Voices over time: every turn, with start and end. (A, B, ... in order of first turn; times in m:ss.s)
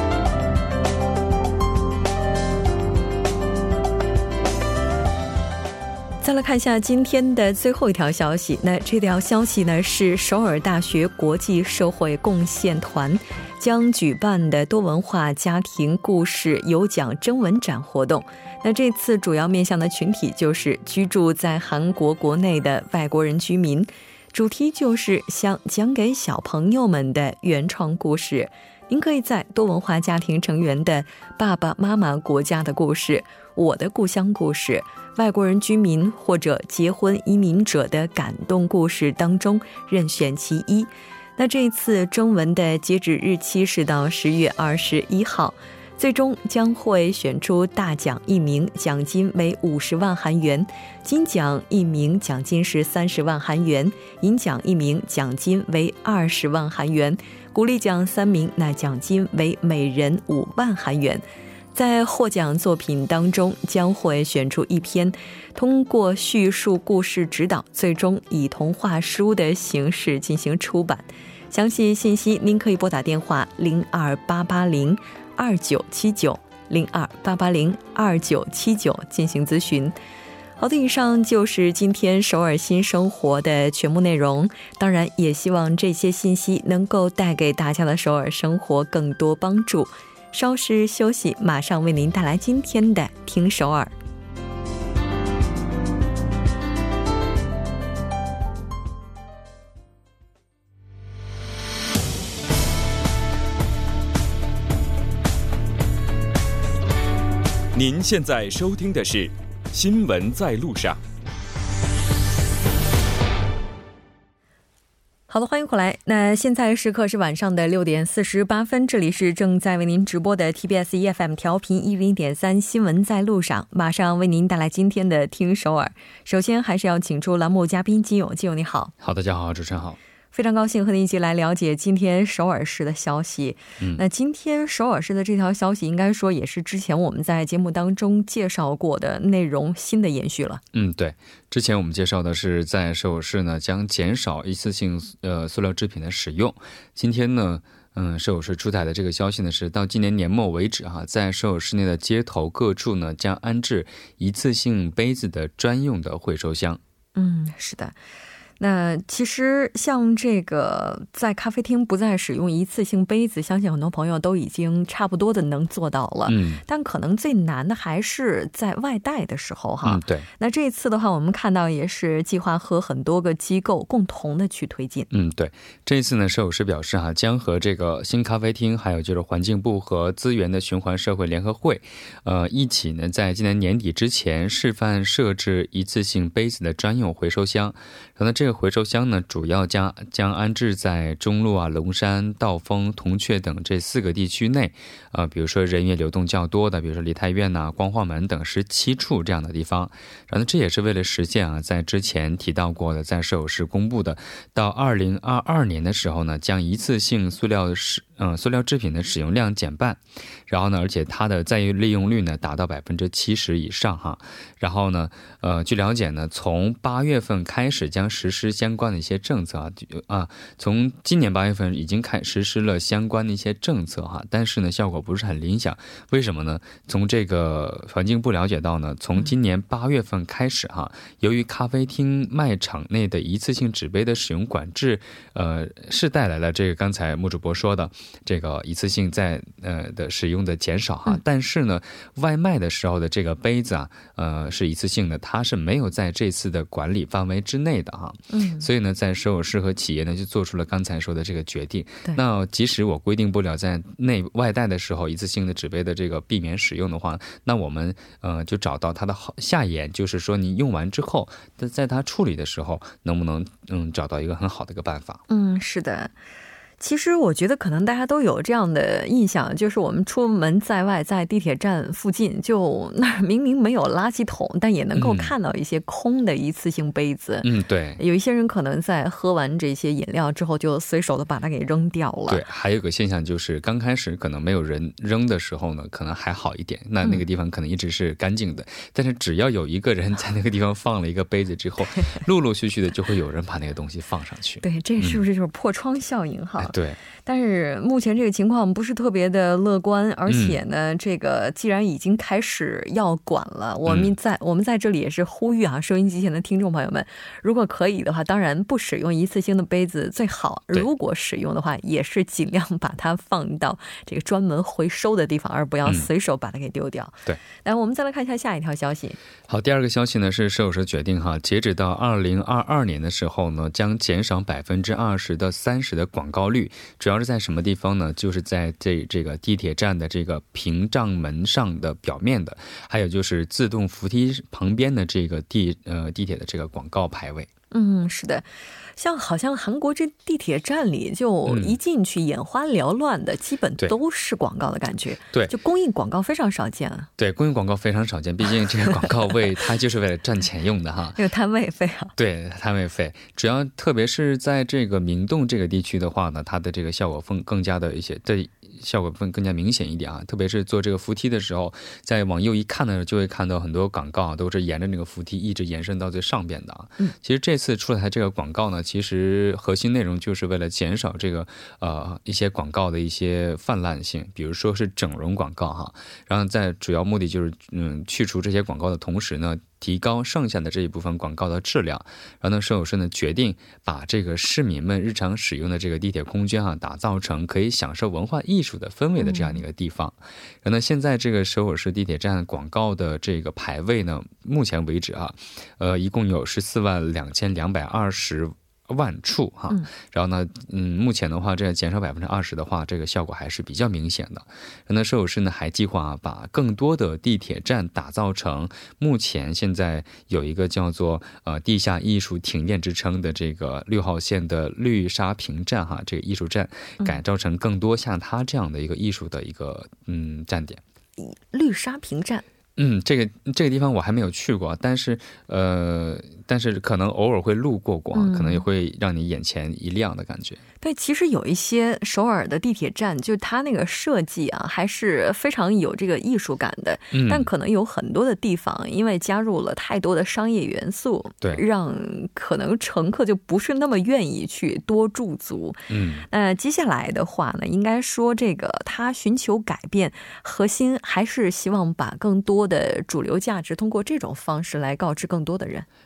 0:06.2-1:01.2 A
1:01.7-1:20.0 A
1:20.6-1:33.9 A
1:47.7-1:51.0 B
1:55.3-2:08.9 A
2:09.0-2:10.0 C
2:10.3-2:20.6 A
2:20.7-2:36.8 C
2:37.1-2:38.0 A
2:38.6-2:55.1 A
2:46.2-2:46.6 C
2:49.8-2:50.3 C
2:55.1-4:25.2 C
4:08.3-4:08.7 A
4:25.3-4:26.1 A
4:26.8-4:42.4 A
4:35.0-4:35.3 C
4:37.4-4:38.0 C
4:42.3-4:55.2 C
4:54.6-4:56.7 A
4:56.6-4:57.0 C
4:57.2-5:19.2 A
5:00.3-5:00.6 C
5:03.8-5:04.1 C
5:19.5-5:37.5 C
5:37.7-5:47.1 A
5:41.4-5:41.8 C
5:47.2-5:51.2 C
5:51.2-5:52.1 A
5:52.2-7:00.8 C
6:29.2-6:29.6 A
7:01.2-7:02.4 A
7:02.8-7:10.6 C
7:08.1-7:08.6 A
7:10.8-7:35.9 A
7:17.1-7:17.5 C
7:25.9-7:26.2 C